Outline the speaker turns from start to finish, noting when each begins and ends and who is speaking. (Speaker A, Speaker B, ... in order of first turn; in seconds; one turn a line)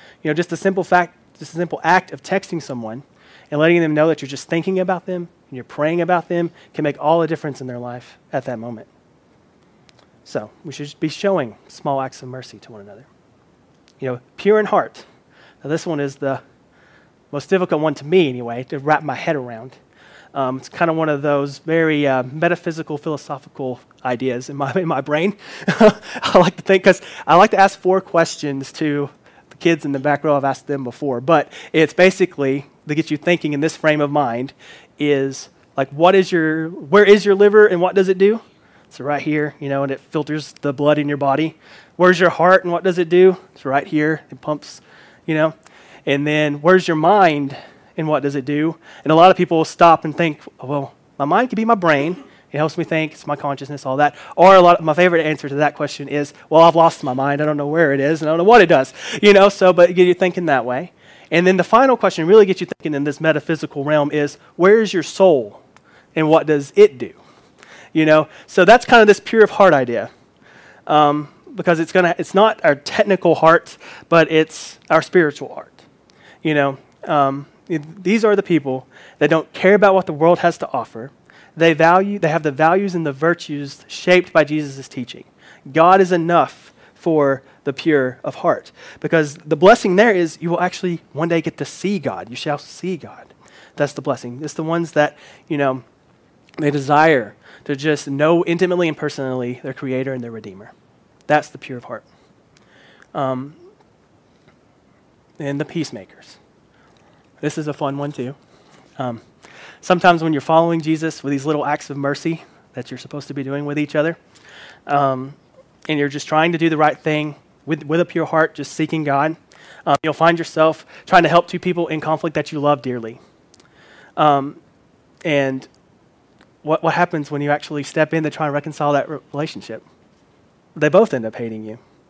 Speaker A: 0.2-8.9
Speaker A: 10.2-13.1
Speaker A: 14.0-15.0
Speaker A: 15.6-16.4
Speaker A: 17.3-19.8
Speaker A: 20.3-45.5
Speaker A: 46.0-65.6
Speaker A: 66.1-67.2
Speaker A: 67.9-70.1
Speaker A: 70.9-75.8
Speaker A: 76.4-95.8
Speaker A: 96.6-100.7
Speaker A: 101.3-102.0
Speaker A: 103.1-103.6
Speaker A: 105.4-106.4
Speaker A: 107.4-108.4
Speaker A: 109.0-109.2
Speaker A: 109.8-114.2
Speaker A: 114.9-115.4
Speaker A: 115.9-123.2
Speaker A: 124.2-124.6
Speaker A: 125.2-125.7
Speaker A: 126.6-129.8
Speaker A: 130.8-131.8